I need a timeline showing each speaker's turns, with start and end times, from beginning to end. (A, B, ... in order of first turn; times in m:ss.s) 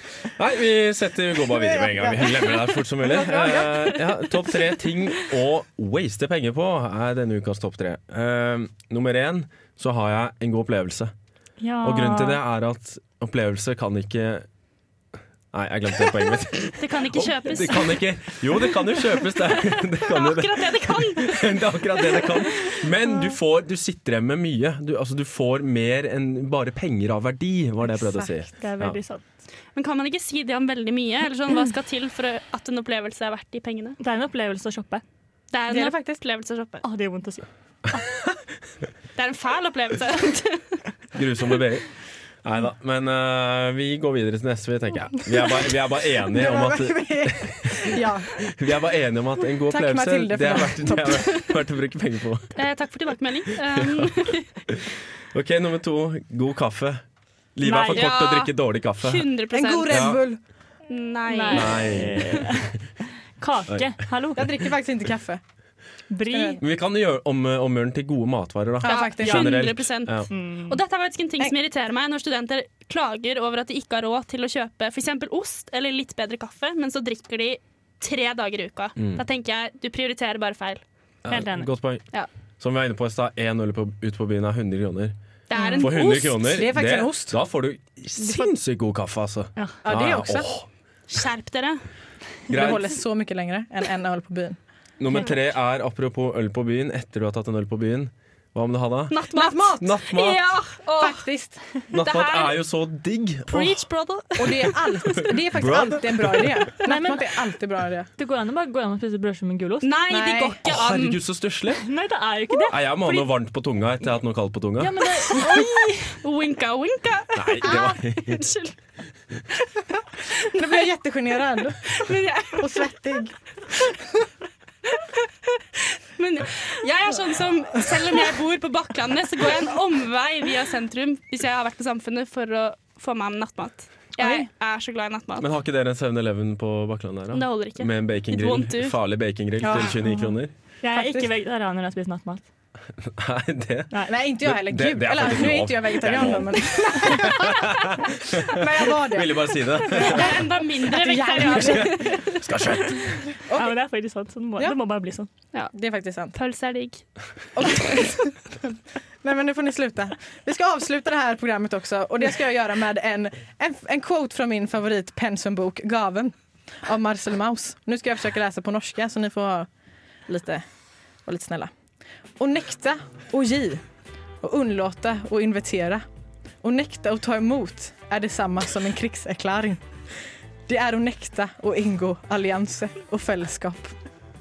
0:00.3-0:11.1 A
0:01.5-0:04.0 B
0:11.6-0:12.4 C
0:11.8-0:14.5 A
0:15.5-0:29.0 A
0:16.8-0:18.0 D
0:19.4-0:22.3 D
0:28.6-0:29.2 C
0:29.8-0:34.0 D
0:34.0-0:35.0 C
0:35.5-0:36.8 D
0:35.7-0:36.1 B
0:36.8-0:38.0 C
0:39.2-0:40.8 D
0:41.2-0:41.9 A
0:42.4-0:52.5 A
0:46.3-0:48.5 B
0:49.7-0:51.5 B
0:52.6-0:54.5 D
0:53.8-0:54.1 A
0:54.7-0:57.0 A
0:57.6-0:59.3 A
0:57.6-0:58.1 C
0:57.8-1:00.2 D
0:59.5-1:00.4 B
0:59.9-1:00.2 A
1:00.9-1:01.8 D
1:01.3-1:02.8 C
1:01.5-1:02.7 A
1:03.4-1:04.7 C
1:04.4-1:05.4 B
1:06.1-1:06.6 C
1:06.3-1:06.6 B
1:06.6-1:10.3 A
1:08.8-1:09.4 B
1:08.8-1:20.8 D
1:10.3-1:10.8 C
1:21.2-1:22.0 A
1:21.3-1:21.7 C
1:22.6-1:25.2 A
1:25.5-1:26.6 D
1:25.6-1:27.4 B
1:25.8-1:30.7 A
1:29.8-1:30.5 B
1:31.1-1:31.8 D
1:32.5-1:33.0 A
1:32.5-1:34.6 B
1:35.0-1:40.6 A
1:39.1-1:41.3 D
1:39.3-1:40.0 B
1:41.0-1:41.6 B
1:41.9-1:42.6 D
1:41.9-1:43.9 A
1:43.5-1:45.2 D
1:44.4-1:48.1 B
1:45.5-1:46.7 A
1:46.8-1:47.3 C
1:48.2-1:49.9 C
1:49.8-1:51.2 D
1:50.1-1:50.6 B
1:50.6-1:51.8 A
1:51.8-1:53.3 C
1:52.7-1:55.1 A
1:54.8-1:56.2 C
1:56.2-1:58.8 D
1:57.4-1:58.4 A
2:00.5-2:04.1 B
2:00.6-2:00.9 D
2:01.8-2:02.9 D
2:04.9-2:05.2 D
2:05.8-2:15.5 D
2:14.2-2:14.5 B
2:15.4-2:20.5 A
2:17.3-2:19.0 D
2:19.6-2:20.3 B
2:20.8-2:22.4 C
2:20.9-2:21.3 B
2:23.0-2:30.4 A
2:24.1-2:27.7 B
2:28.4-2:32.2 B
2:30.0-2:32.2 D
2:31.4-2:33.2 A
2:33.4-2:35.3 C
2:33.5-2:33.8 B
2:35.7-2:36.4 B
2:36.4-2:37.1 D
2:37.6-2:49.7 B
2:50.3-2:50.6 B
2:51.2-2:51.7 B
2:52.4-2:53.8 B
2:54.4-2:56.0 B
2:56.6-2:59.8 B
3:00.7-3:03.9 B